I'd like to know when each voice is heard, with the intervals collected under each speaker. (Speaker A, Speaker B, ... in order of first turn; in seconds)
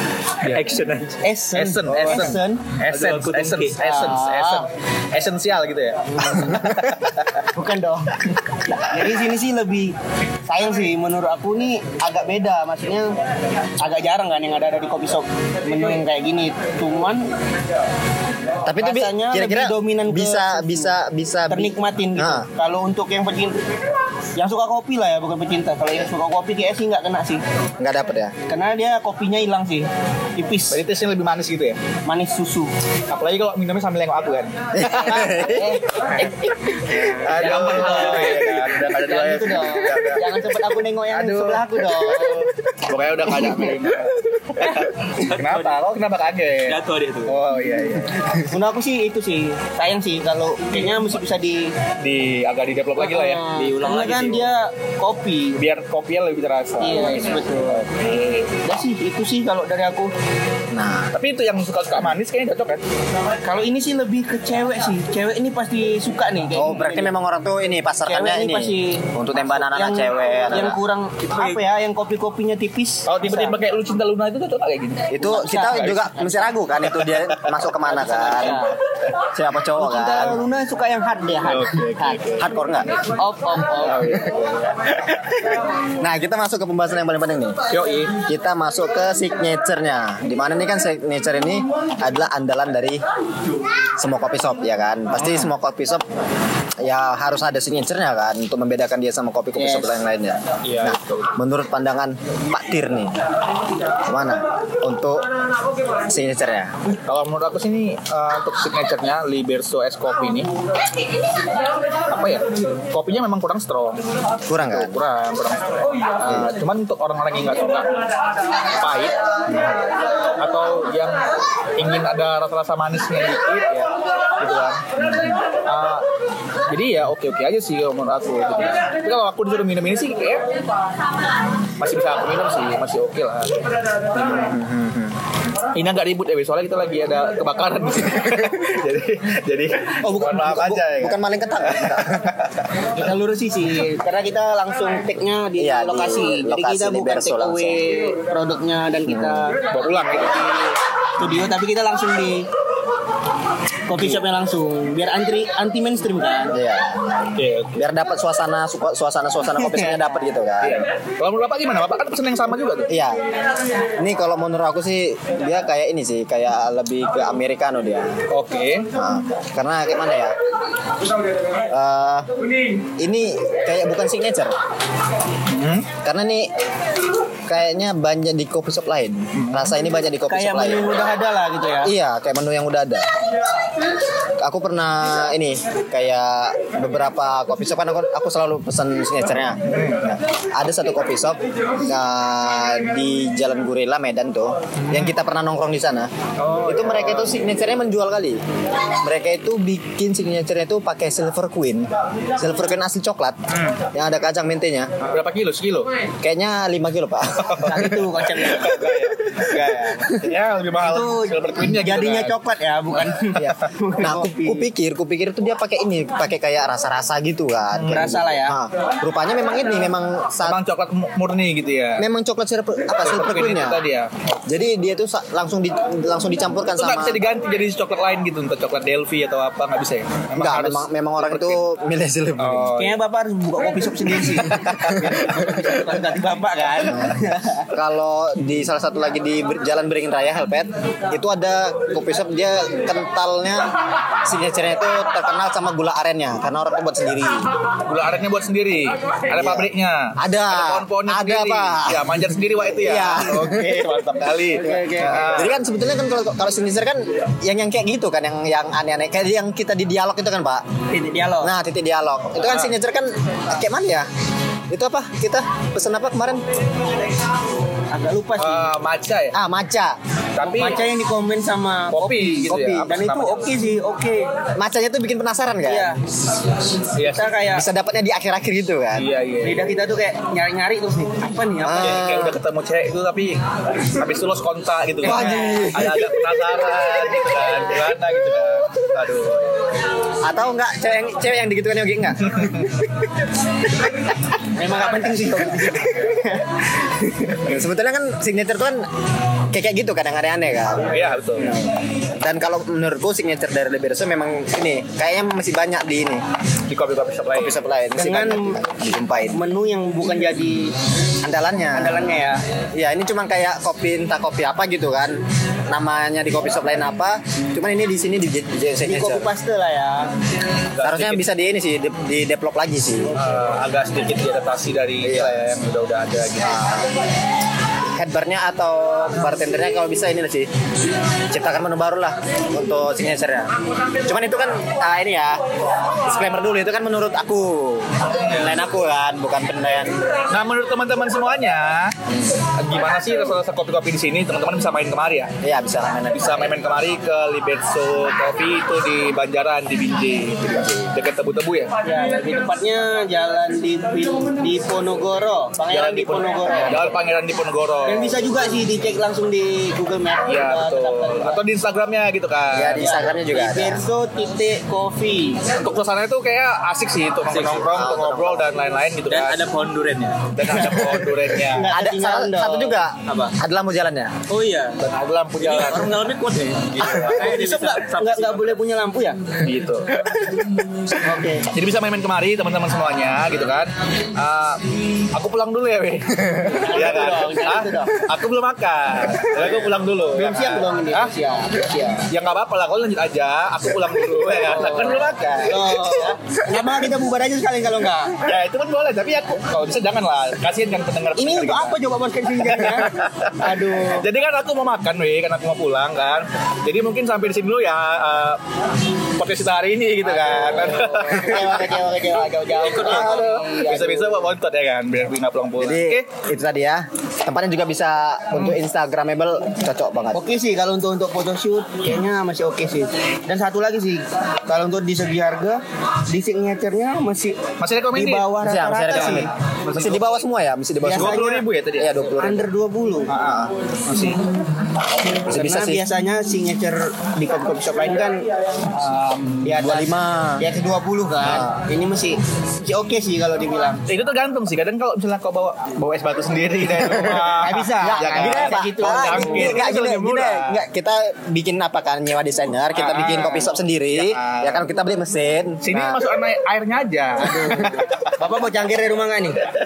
Speaker A: 0.4-0.8, 1.5-7.4, 30.7-31.8, 33.1-35.2, 37.1-40.4, 41.1-48.4, 52.0-53.4, 55.5-58.5, 61.1-62.8, 73.0-77.5, 81.4-83.1, 83.7-84.8, 87.7-88.1, 100.6-101.3, 107.0-110.5, 112.1-114.0, 114.6-118.0, 118.8-119.8, 120.4-126.0, 126.7-130.5, 131.8-133.7, 135.7-142.5, 149.7-150.4, 151.2-151.5, 153.9-154.2, 157.3-157.8, 160.6-162.9, 168.3-168.9, 175.5-175.9, 179.3-179.7, 189.7-190.2, 194.8-195.1, 196.4-197.4, 203.5-203.8, 205.0-205.9, 207.4-212.3, 213.1-213.7, 217.7-218.1, 220.4-222.1, 223.0-224.1, 226.7-231.6, 232.4-233.0, 234.2-235.2, 247.8-255.6, 262.4-262.7, 268.4-269.3, 270.3-270.9, 271.9-273.6, 276.9-277.3, 278.9-279.7, 281.7-289.7, 292.3-292.8, 300.9-301.5, 306.7-307.6, 320.7-321.2, 323.1-326.7, 338.2-338.6, 340.3-341.9, 342.6-345.3, 346.1-351.7, 355.7-358.2, 360.3-362.9, 365.5-369.4, 370.3-371.7, 374.8-375.9, 376.8-377.4, 379.4-380.4, 381.4-391.1, 392.1-396.1, 398.2-401.8, 402.4-408.4, 409.2-411.8, 412.6-416.0, 427.6-428.3, 428.9-430.1, 430.9-432.0, 433.1-434.2, 438.8-439.1, 443.9-450.6, 452.8-454.7, 455.6-458.1
Speaker B: 0.5-1.1, 1.9-3.8, 37.3-38.7, 45.2-45.8, 46.6-47.4, 53.5-54.5, 367.2-367.6, 369.1-370.4, 373.1-373.4, 374.3-374.8, 375.4-378.5
Speaker C: 1.2-2.7, 3.8-4.7, 6.1-6.8, 7.5-8.2, 8.8-9.9, 10.5-13.2, 13.8-17.3, 18.8-20.9, 21.5-23.6, 24.4-27.4, 28.5-30.8, 32.0-32.7, 34.8-42.5, 48.5-51.7, 53.0-55.6, 56.8-57.8, 58.6-60.1, 63.4-67.1, 68.0-73.6, 75.3-76.0, 77.9-78.7, 79.7-82.3, 83.1-84.2, 99.6-99.9, 142.9-152.5, 153.9-156.5, 159.7-159.9, 180.3-181.9, 207.6-208.9, 210.8-214.7, 217.9-218.6, 232.8-237.7, 254.5-255.4, 260.9-261.5, 267.9-268.7, 270.4-274.3, 275.6-276.0, 277.0-277.6, 279.4-282.0, 285.2-285.5, 294.5-297.4, 307.9-308.6, 309.3-310.7, 311.7-312.4, 318.8-320.1, 351.8-356.9, 357.9-361.4, 362.8-365.4, 371.5-372.8, 377.1-379.2, 381.0-381.5, 386.4-388.0, 390.1-392.1, 394.3-398.1, 401.2-404.0, 410.0-414.2, 420.1-427.4, 427.9-429.3, 430.8-431.4, 432.2-433.1, 435.2-438.2, 438.8-443.8, 447.4-449.7, 457.2-459.4
Speaker D: 18.6-22.5, 27.8-28.3, 34.7-35.7, 60.7-61.1, 66.5-70.8, 75.1-78.7, 79.3-80.4, 82.4-82.9, 84.0-84.4, 85.1-87.6, 88.2-93.0, 94.0-96.0, 96.8-103.1, 104.1-105.3, 106.0-106.7, 114.5-115.0, 116.2-116.5, 134.1-135.1, 140.1-142.3, 145.6-147.9, 149.0-149.5, 156.5-160.8, 162.9-163.2, 164.0-168.2, 168.9-170.3, 171.7-172.3, 173.0-174.5, 176.0-176.5, 177.5-180.9, 181.8-183.1, 184.4-196.1, 196.6-198.4, 199.0-203.4, 203.9-204.9, 206.2-208.0, 213.4-220.6, 222.0-223.8, 224.5-227.3, 230.3-232.7, 236.8-243.7, 244.2-247.5, 249.3-254.1, 255.2-260.6, 261.4-264.1, 264.7-266.4, 269.3-270.0, 272.5-272.9, 274.6-275.9, 277.5-279.1, 281.6-282.4, 285.0-286.3, 290.2-292.5, 297.4-298.9, 299.5-300.9, 302.2-306.2, 307.3-309.4, 311.2-312.1, 312.7-319.3, 320.8-323.2, 325.0-325.5, 326.4-326.9, 327.9-330.5, 331.3-339.9, 345.4-346.5, 362.5-363.8, 367.6-368.5, 370.7-371.1, 371.7-374.2, 415.6-420.2, 428.4-432.4, 435.2-435.9, 439.5-440.4, 441.2-441.6, 446.8-447.3, 447.8-456.1